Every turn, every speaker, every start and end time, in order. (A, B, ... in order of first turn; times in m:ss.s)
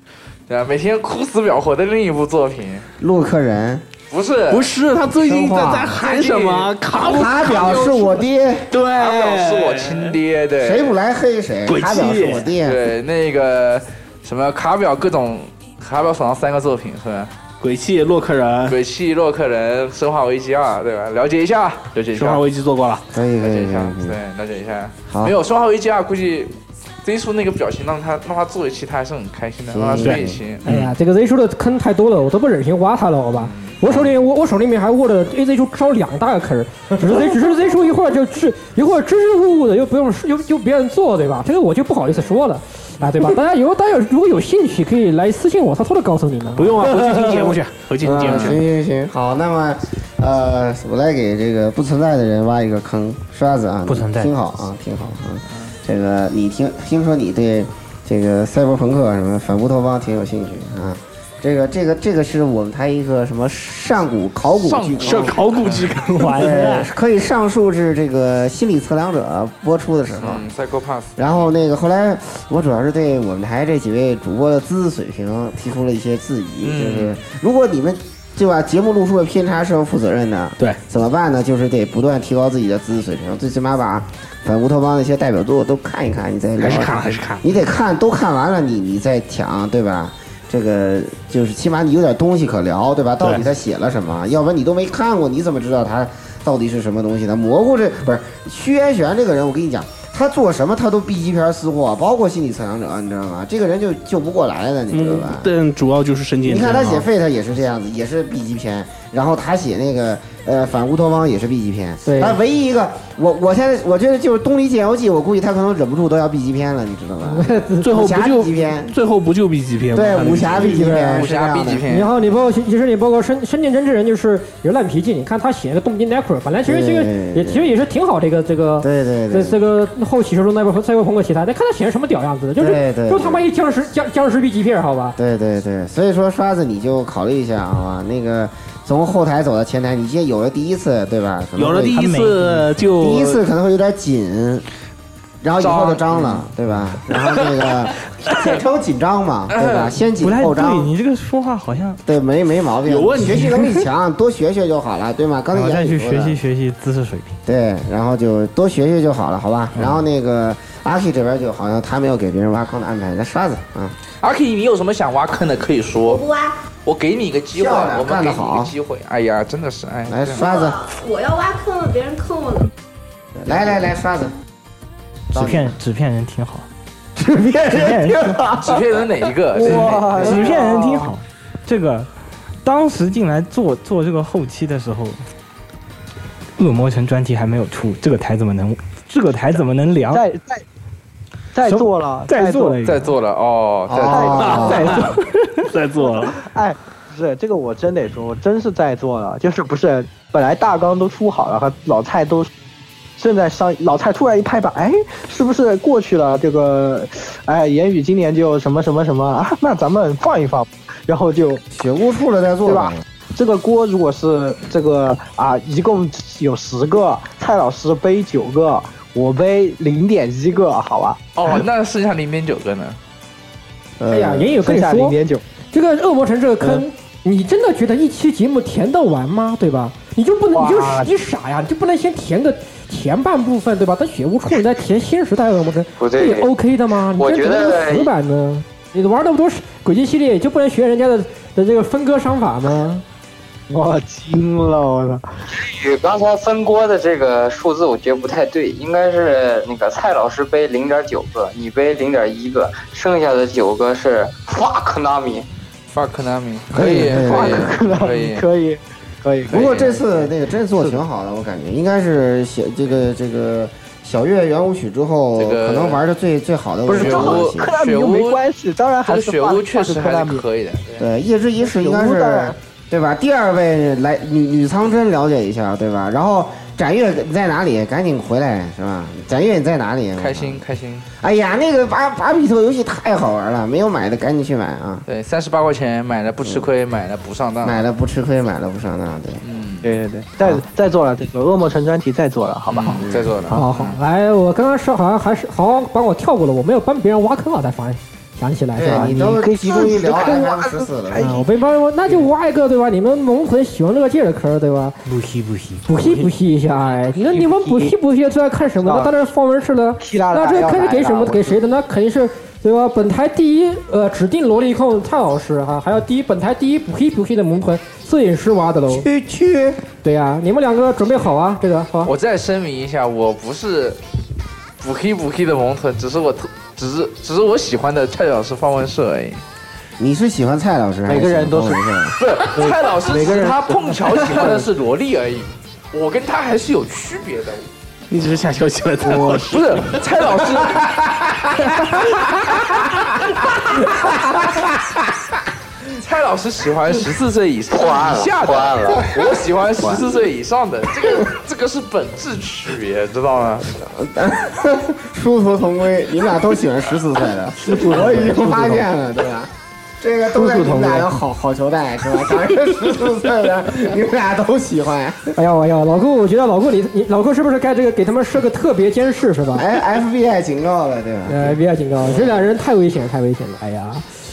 0:00.5-0:02.9 A
0:03.0-0:03.8 B
0:04.1-0:04.7 A
0:04.5-0:08.1 C
0:05.2-0:06.0 B
0:06.0-0:08.0 A
0:07.0-0:08.7 B
0:08.7-0:10.2 C
0:08.9-0:10.9 A
0:10.6-0:12.8 B
0:11.6-0:12.5 C
0:12.6-0:17.3 A
0:17.6-0:18.8 C
0:18.7-0:22.4 A
0:22.1-0:23.0 C
0:23.1-0:24.2 B
0:23.4-0:30.8 A
0:25.1-0:25.3 B
0:29.7-0:30.4 B
0:30.6-0:46.9 D
0:33.4-0:33.8 A
0:46.6-0:48.6 C
0:47.0-0:47.5 B
0:48.0-1:05.4 B
0:48.2-0:48.6 A
0:53.9-0:54.3 E
1:04.6-1:06.2 A
1:05.0-1:06.9 C
1:06.3-1:10.4 B
1:10.2-1:11.2 A
1:11.2-1:45.5 B
1:16.6-1:17.1 A
1:26.6-1:27.4 C
1:44.9-1:47.0 C
1:46.4-1:58.9 B
1:52.0-1:52.4 D
1:57.2-1:57.9 D
1:57.8-2:00.8 C
1:59.9-2:01.8 B
2:00.6-2:01.2 D
2:01.0-2:02.1 A
2:01.9-2:15.2 D
2:06.6-2:07.7 B
2:08.8-2:09.6 B
2:12.6-2:13.4 B
2:15.2-2:22.1 B
2:21.6-2:23.4 C
2:21.9-2:22.7 E
2:23.0-2:24.6 B
2:25.4-2:30.9 B
2:25.6-2:26.4 A
2:27.2-2:27.7 A
2:29.5-2:29.9 A
2:30.2-2:32.0 E
2:32.0-2:36.4 B
2:32.8-2:33.7 C
2:35.5-2:37.4 E
2:37.4-2:43.9 B
2:44.2-2:46.2 A
2:46.0-2:46.5 F
2:46.8-2:50.4 A
2:47.5-2:48.7 B
2:50.1-2:50.8 B
2:50.4-2:52.6 F
2:53.4-2:54.3 B
2:55.3-2:56.6 E
2:55.3-2:55.7 B
2:57.2-2:59.0 B
2:57.6-2:58.4 E
2:58.6-3:00.3 A
2:59.5-3:01.1 G
3:00.1-3:02.1 E
3:02.6-3:05.2 E
3:06.6-3:10.2 E
3:10.1-3:10.6 G
3:11.5-3:13.1 G
3:11.6-3:12.8 E
3:12.8-3:14.8 A
3:13.9-3:15.0 B
3:14.1-3:15.2 G
3:14.4-3:14.9 C
3:14.9-3:15.2 E
3:15.7-3:16.4 C
3:16.0-3:22.5 G
3:23.2-3:31.6 G
3:31.7-3:33.0 B
3:32.6-3:41.6 G
3:41.4-3:43.0 A
3:44.0-3:44.5 B
3:44.1-3:45.2 D
3:44.6-3:45.4 G
3:45.7-4:03.0 D
3:50.5-3:51.1 G
3:56.0-3:56.5 H
3:57.1-3:58.1 H
4:03.7-4:05.2 G
4:05.5-4:15.5 H
4:15.9-4:18.4 A
4:16.7-4:17.8 B
4:16.8-4:21.0 G
4:19.5-4:20.0 A
4:19.5-4:27.7 B
4:25.4-4:26.0 A
4:26.9-4:30.4 G
4:26.9-4:28.4 A
4:29.0-4:31.0 A
4:31.0-4:40.6 B
4:31.6-4:32.5 G
4:40.2-4:41.0 A
4:41.2-4:45.0 B
4:45.1-4:47.8 A
4:47.6-4:49.4 B
4:49.4-4:49.9 A
4:49.8-4:53.6 G
4:52.7-4:54.0 A
4:53.0-4:53.5 B
4:53.5-4:59.2 D
4:58.7-5:01.4 B
4:58.8-5:01.5 G
5:01.2-5:05.0 D
5:05.2-5:05.8 E
5:05.8-5:19.1 D
5:07.1-5:07.9 G
5:08.8-5:09.1 G
5:10.0-5:11.6 G
5:18.9-5:19.8 B
5:20.0-5:22.1 D
5:22.0-5:24.0 A
5:24.8-5:29.4 A
5:30.0-5:32.2 B
5:31.1-5:31.8 G
5:32.2-5:37.7 A
5:32.5-5:34.7 G
5:38.1-5:40.7 C
5:39.5-5:43.0 A
5:43.7-5:44.2 A
5:45.8-5:53.7 A
5:47.7-5:49.1 H
5:53.8-6:05.3 B
5:57.6-5:58.8 G
6:00.3-6:01.1 G
6:05.4-6:09.6 D
6:09.5-6:12.4 B
6:11.3-6:14.0 D